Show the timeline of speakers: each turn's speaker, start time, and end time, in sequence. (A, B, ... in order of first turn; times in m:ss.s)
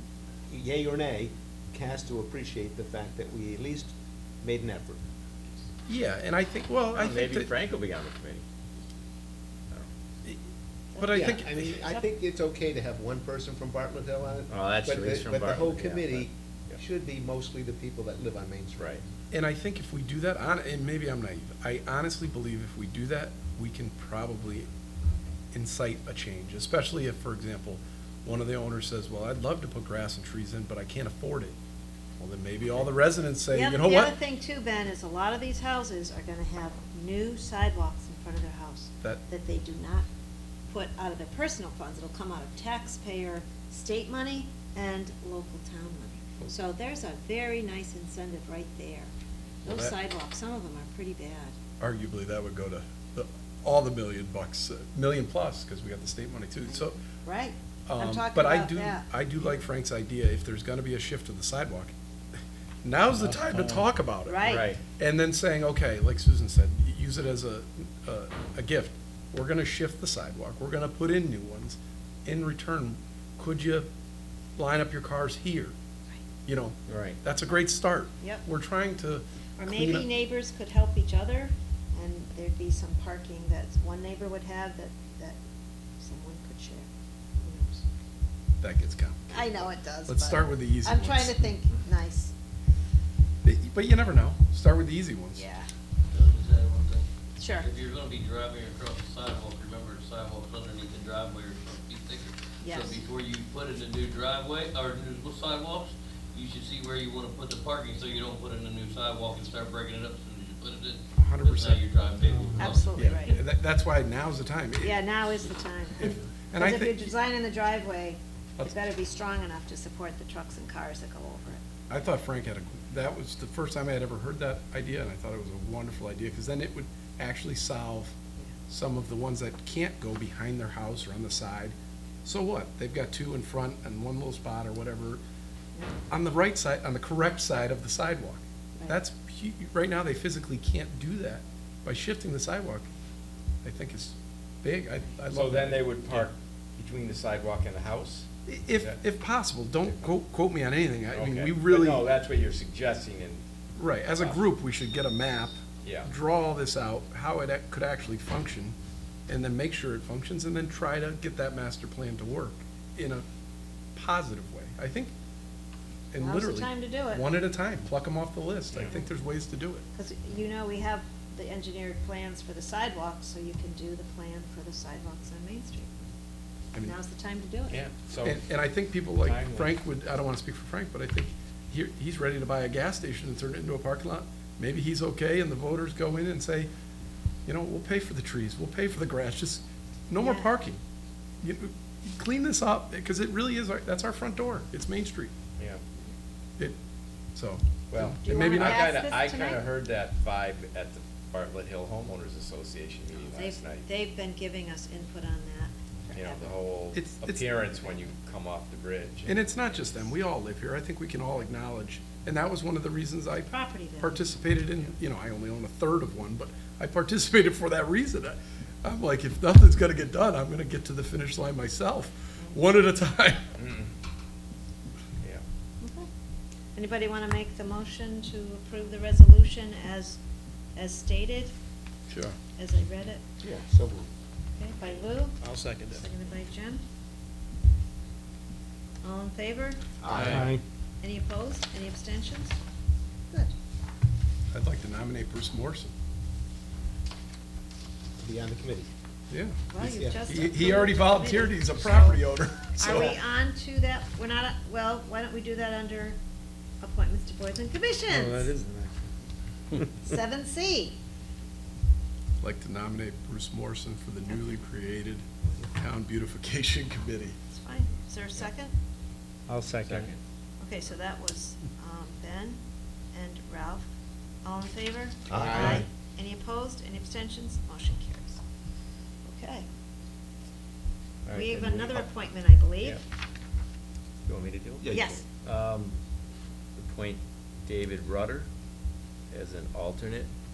0:00.5-0:05.0 A
0:05.9-0:07.5 B
0:06.9-0:08.4 C
0:10.9-0:11.3 D
0:10.9-0:11.9 B
0:11.1-0:19.0 A
0:14.5-0:16.8 C
0:19.3-0:24.7 B
0:25.5-0:31.5 B
0:32.2-0:34.2 B
0:33.5-0:40.0 D
0:40.7-0:49.1 D
0:49.6-0:49.9 B
0:49.6-0:51.5 D
0:51.8-0:57.0 B
0:56.6-0:59.1 D
0:57.9-1:01.9 B
1:02.8-1:04.4 B
1:04.2-1:04.6 D
1:04.4-1:04.8 C
1:05.0-1:13.9 B
1:14.6-1:15.7 B
1:16.4-1:20.1 B
1:16.9-1:17.2 C
1:19.6-1:25.4 D
1:26.0-1:26.9 D
1:27.4-1:27.8 D
1:28.6-1:31.4 B
1:29.3-1:32.3 D
1:33.4-1:35.4 B
1:35.3-1:35.7 D
1:36.1-1:53.1 E
1:37.4-1:37.7 D
1:42.6-1:43.0 D
1:51.2-1:51.8 B
1:52.6-1:53.4 D
1:52.8-1:55.2 B
1:54.8-2:01.6 D
1:56.0-1:57.1 B
2:01.9-2:15.2 B
2:16.1-2:22.9 B
2:23.6-2:26.3 B
2:25.3-2:28.3 C
2:28.4-2:32.1 B
2:31.1-2:33.4 C
2:33.8-2:38.7 B
2:35.8-2:36.1 C
2:39.3-2:43.2 B
2:43.9-2:45.1 B
2:46.1-2:49.8 B
2:46.2-2:47.2 D
2:49.9-2:55.9 D
2:56.8-2:57.8 D
2:57.7-2:58.4 C
2:58.2-3:06.7 B
2:59.2-2:59.7 C
3:07.4-3:10.8 B
3:10.2-3:10.5 D
3:11.4-3:15.3 B
3:15.6-3:15.8 C
3:17.3-3:18.9 B
3:17.9-3:23.9 C
3:18.2-3:19.6 D
3:23.2-3:26.5 D
3:26.1-3:29.4 C
3:26.9-3:27.5 B
3:29.2-3:43.5 B
3:33.5-3:34.2 D
3:43.6-3:43.9 C
3:45.8-3:46.1 D
3:46.7-3:50.2 D
3:50.7-3:51.5 D
3:52.1-3:52.4 B
3:52.6-3:53.2 D
3:53.4-3:54.1 A
3:54.6-3:56.8 D
3:55.4-3:56.0 B
3:59.0-3:59.8 D
4:00.0-4:00.4 A
4:00.1-4:00.5 B
4:00.1-4:00.6 C
4:01.0-4:02.6 D
4:04.5-4:05.9 B
4:08.2-4:08.9 A
4:09.3-4:13.2 B
4:09.7-4:12.2 D
4:09.8-4:10.2 A
4:12.7-4:16.2 D
4:16.8-4:18.5 D
4:18.2-4:18.7 C
4:19.8-4:21.0 D
4:22.4-4:27.4 B
4:27.5-4:28.7 D
4:29.5-4:30.2 C
4:30.6-4:32.6 D
4:33.1-4:33.9 D
4:34.4-4:38.4 D
4:35.3-4:35.8 C
4:35.3-4:35.8 A
4:39.2-4:39.6 D
4:41.2-4:42.1 C
4:41.3-4:43.0 D
4:44.2-4:46.0 C
4:44.8-4:45.2 A
4:44.9-4:45.2 D
4:46.8-4:48.5 C
4:49.3-4:50.3 C